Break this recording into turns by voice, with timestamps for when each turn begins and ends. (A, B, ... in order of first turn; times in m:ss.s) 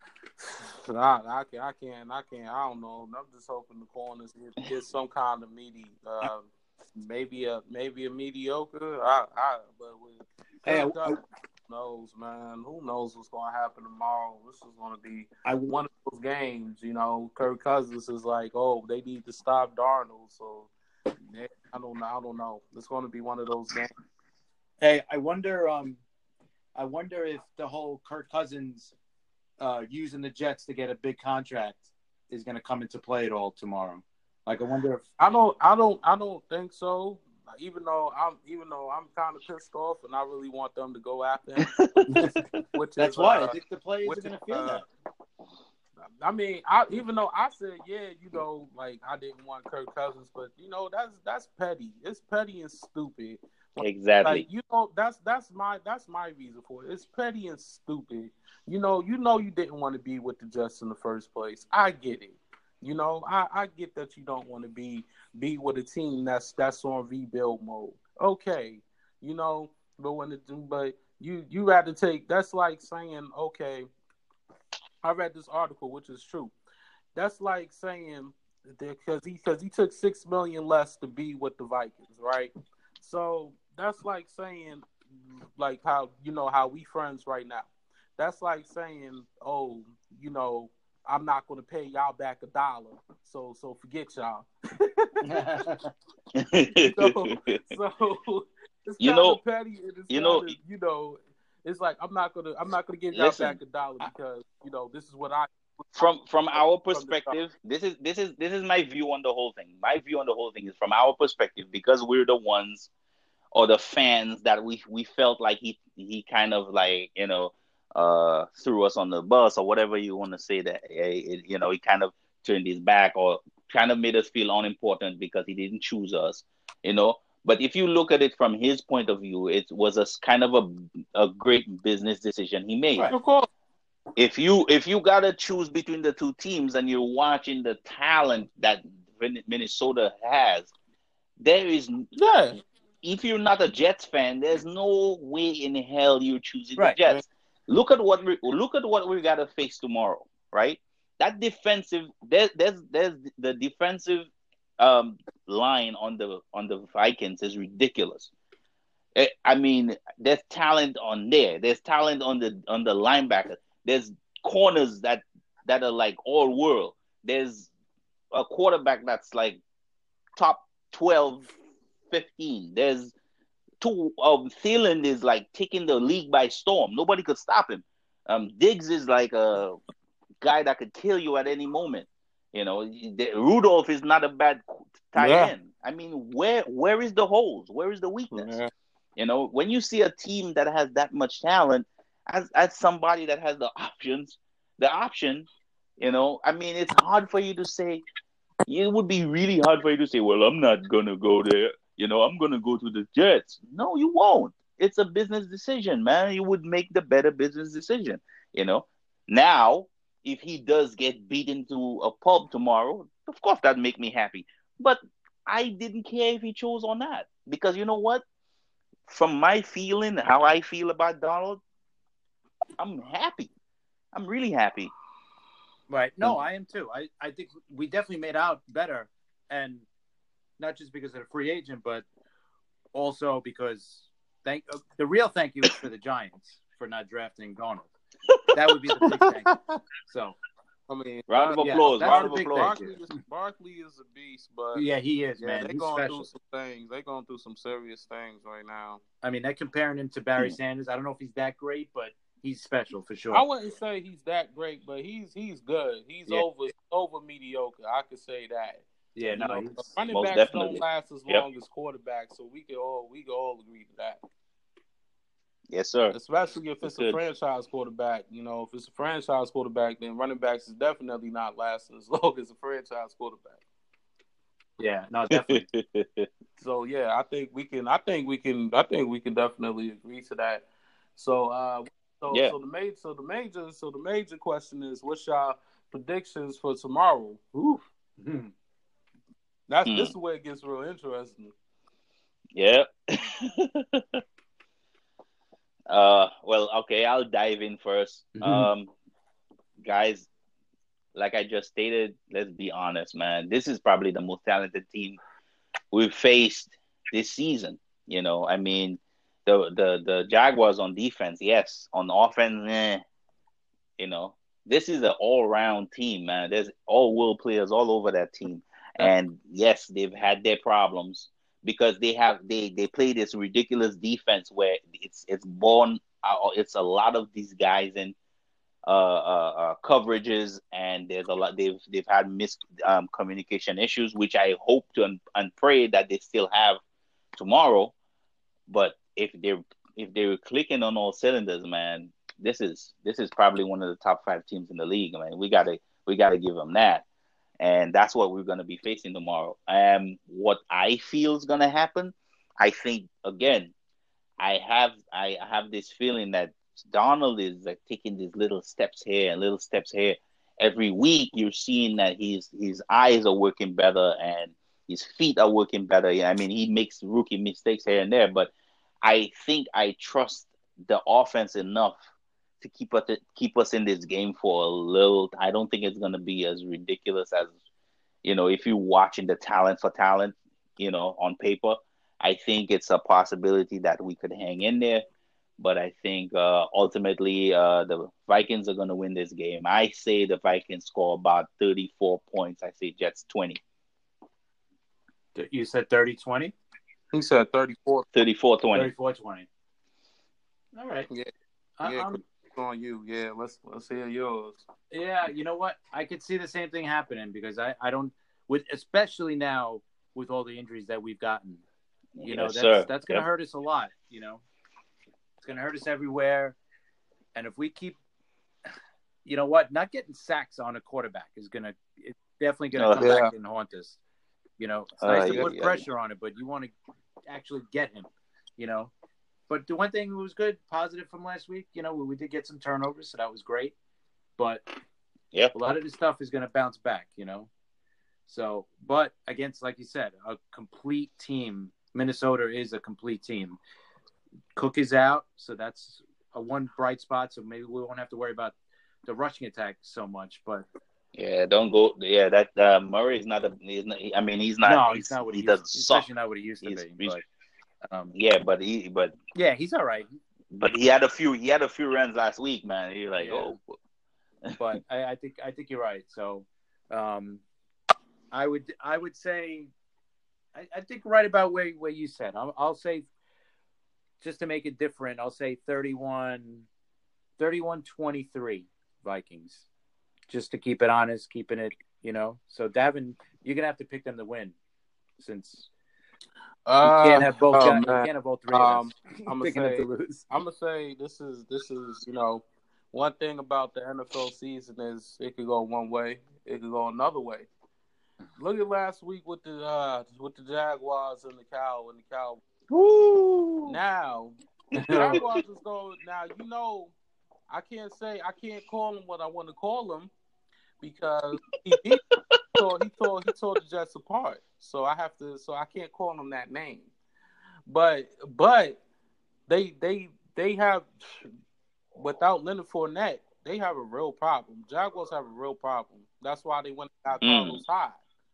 0:00.4-0:11.2 A
0:10.7-0:11.2 B
0:11.7-0:20.7 A
0:15.4-0:15.8 B
0:21.3-0:23.9 A
0:24.8-0:26.0 B
0:26.8-0:28.9 B
0:29.6-0:35.0 B
0:35.2-0:41.7 A
0:41.6-0:42.1 C
0:42.7-0:44.8 A
0:43.0-0:44.8 B
0:46.2-1:13.9 A
0:53.8-0:54.4 C
1:15.0-1:16.5 A
1:17.2-1:35.4 A
1:35.3-1:35.9 B
1:36.4-1:37.7 C
1:36.8-1:47.4 A
1:39.0-1:39.4 C
1:40.1-1:40.5 C
1:43.1-1:43.6 C
1:46.0-1:52.9 C
1:53.5-2:13.1 C
2:13.1-2:13.5 A
2:14.2-2:20.7 C
2:21.4-2:22.1 C
2:22.2-2:22.6 A
2:23.0-2:38.3 C
2:39.2-2:47.7 C
2:48.3-2:49.6 C
2:50.4-2:51.5 C
2:52.1-2:53.1 C
2:53.8-2:59.8 C
3:00.4-3:08.5 C
3:05.2-3:05.5 A
3:08.3-3:08.7 A
3:09.2-3:15.5 C
3:16.0-3:18.0 C
3:18.7-3:38.2 C
3:39.1-3:41.6 C
3:42.8-3:43.5 C
3:44.1-3:44.9 C
3:45.9-3:49.9 B
3:50.6-3:52.1 B
3:52.9-3:57.9 B
3:58.5-4:00.4 B
3:59.5-3:59.8 A
4:00.9-4:04.9 A
4:01.3-4:02.8 C
4:01.6-4:03.0 B
4:04.7-4:06.3 B
4:05.4-4:09.0 A
4:09.2-4:13.5 B
4:13.3-4:24.2 A
4:19.2-4:19.8 B
4:20.1-4:21.4 C
4:25.7-4:26.2 C
4:26.1-4:33.6 A
4:26.8-4:27.2 C
4:34.8-4:35.7 B
4:35.3-4:36.3 C
4:36.6-4:47.5 A
4:47.5-4:48.5 B
4:49.7-4:51.5 A
4:49.9-4:50.2 C
4:52.6-4:54.2 C
4:55.9-4:58.9 C
4:58.4-4:58.7 B
4:59.8-5:00.3 C
5:01.2-5:05.2 C
5:05.9-5:13.0 C
5:14.0-5:28.2 C
5:28.9-5:36.8 C
5:37.4-5:38.0 C
5:38.7-5:47.0 C
5:47.6-5:53.7 C
5:54.4-6:08.5 C
6:09.0-6:12.0 C
6:12.6-6:17.5 C
6:18.2-6:25.0 C
6:25.6-6:33.6 C
6:35.4-6:36.6 B
6:37.1-6:38.1 A
6:38.1-6:38.9 C
6:38.7-6:39.5 B
6:40.8-6:41.1 B
6:41.8-6:42.2 B
6:41.8-6:44.6 A
6:44.9-6:51.6 B
6:52.2-6:53.2 C
6:52.2-6:54.4 B
6:55.4-6:56.6 B
6:57.4-6:58.0 B
6:59.2-7:04.0 B
7:02.8-7:03.1 C
7:03.0-7:03.3 A
7:04.6-7:06.7 B
7:05.0-7:05.8 C
7:05.1-7:05.5 A
7:07.3-7:08.9 B
7:09.5-7:13.7 B
7:14.4-7:14.7 B
7:15.5-7:17.5 B
7:18.3-7:23.6 B
7:24.6-7:30.7 B
7:31.2-7:36.1 C
7:34.6-7:37.2 B
7:36.6-7:37.2 C
7:37.9-7:38.1 B
7:38.1-7:39.2 C
7:39.4-7:40.2 B
7:40.5-7:43.6 C
7:43.2-7:43.6 B
7:44.5-7:44.8 C
7:44.6-7:47.4 B
7:48.3-7:49.7 B
7:50.5-7:53.1 B
7:54.2-7:56.7 B
7:57.4-7:59.7 B
8:00.3-8:04.6 B
8:05.2-8:05.7 B
8:06.7-8:17.5 A
8:06.8-8:10.3 B
8:18.4-8:22.4 A
8:22.7-8:23.8 C
8:23.7-8:26.9 A
8:24.7-8:25.2 C
8:24.8-8:25.2 B
8:27.5-8:30.1 A
8:30.8-8:32.0 A
8:32.1-8:32.4 C
8:32.6-8:36.9 A
8:37.7-8:38.8 A
8:39.5-8:41.3 A
8:42.0-8:48.0 A
8:47.2-8:47.6 C